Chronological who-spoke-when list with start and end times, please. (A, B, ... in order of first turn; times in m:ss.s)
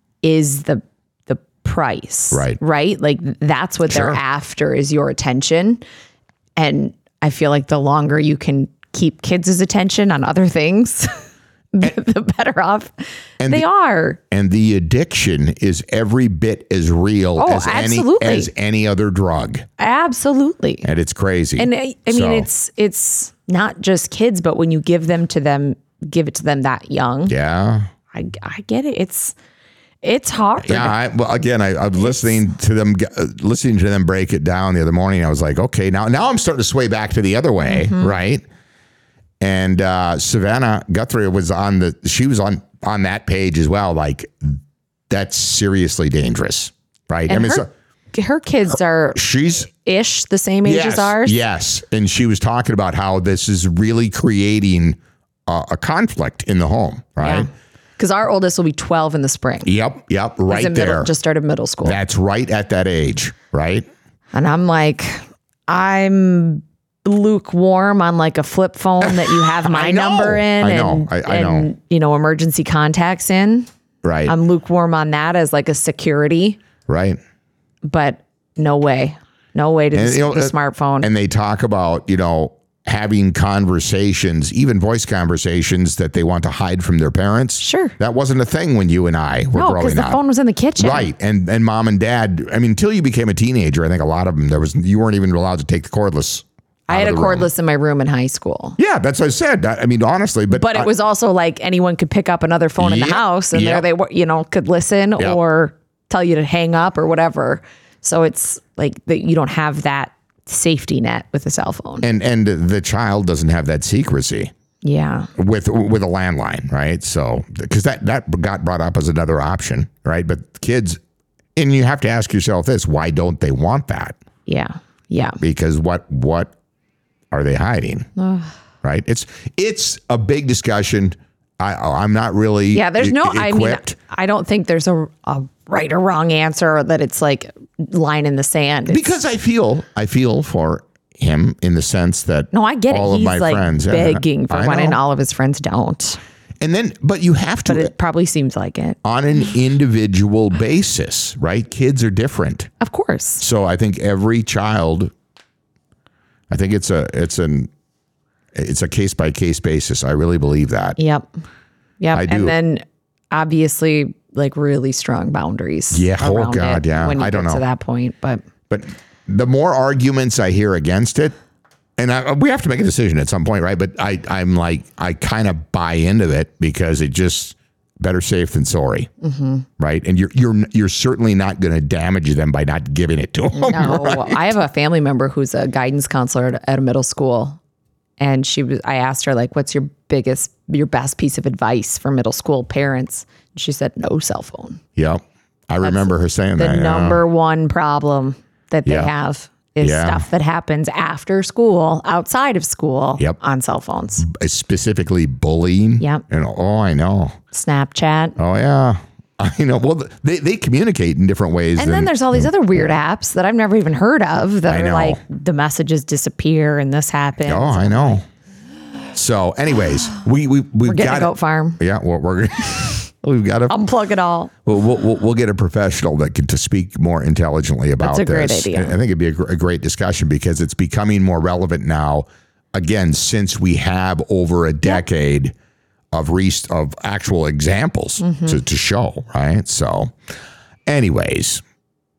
0:00.2-0:05.8 A
0:02.3-0:02.6 B
0:03.9-0:04.2 B
0:06.6-0:11.2 A
0:11.7-0:14.2 A
0:13.4-0:13.6 B
0:14.3-0:19.6 B
0:17.4-0:18.5 A
0:19.8-0:20.8 A
0:20.8-0:22.5 B
0:21.6-0:27.3 A
0:27.3-0:27.9 B
0:28.1-0:29.3 A
0:30.0-0:31.0 A
0:30.6-0:38.4 B
0:32.0-0:32.4 A
0:37.6-0:38.1 A
0:39.4-0:47.7 B
0:47.3-0:51.4 A
0:49.1-0:49.7 B
0:50.6-0:57.5 B
0:57.2-0:59.7 A
0:59.6-1:01.1 B
1:00.5-1:02.0 A
1:01.8-1:03.9 B
1:04.3-1:13.7 A
1:09.0-1:11.7 B
1:14.0-1:14.3 B
1:14.2-1:16.6 A
1:16.9-1:17.2 B
1:17.8-1:21.1 A
1:19.9-1:30.2 B
1:27.6-1:27.9 A
1:29.5-1:31.1 A
1:30.8-1:37.5 B
1:36.9-1:38.8 A
1:38.8-1:40.9 B
1:40.5-1:52.0 A
1:42.8-1:43.8 B
1:52.0-1:54.5 B
1:54.8-1:55.3 A
1:55.4-2:01.0 B
2:01.6-2:04.2 B
2:04.4-2:05.4 A
2:05.4-2:06.5 B
2:07.3-2:08.1 B
2:08.2-2:08.5 A
2:08.8-2:13.9 B
2:12.7-2:19.1 A
2:18.9-2:25.0 B
2:22.5-2:26.2 A
2:26.6-2:27.9 B
2:27.7-2:29.0 A
2:29.0-2:32.7 B
2:32.8-2:33.4 A
2:33.4-2:35.1 B
2:36.5-2:37.7 B
2:38.5-2:41.0 B
2:41.0-2:41.3 A
2:42.0-2:48.4 A
2:42.1-2:42.5 B
2:45.9-2:47.6 B
2:48.7-2:51.3 B
2:52.0-2:59.1 B
2:59.2-2:59.6 A
2:59.8-3:04.5 B
3:03.5-3:07.6 A
3:08.2-3:14.8 A
3:15.0-3:17.2 B
3:16.6-3:24.2 A
3:18.8-3:19.1 B
3:19.8-3:20.2 B
3:24.2-3:27.4 B
3:27.5-3:28.4 A
3:28.4-3:32.5 B
3:31.8-3:38.2 A
3:34.7-3:35.2 B
3:37.4-3:38.2 B
3:39.1-3:43.8 B
3:40.8-3:41.8 A
3:43.7-3:44.5 A
3:44.6-3:55.5 B
3:48.0-3:48.9 A
3:56.1-4:00.1 B
3:58.2-3:58.6 A
4:00.8-4:01.6 B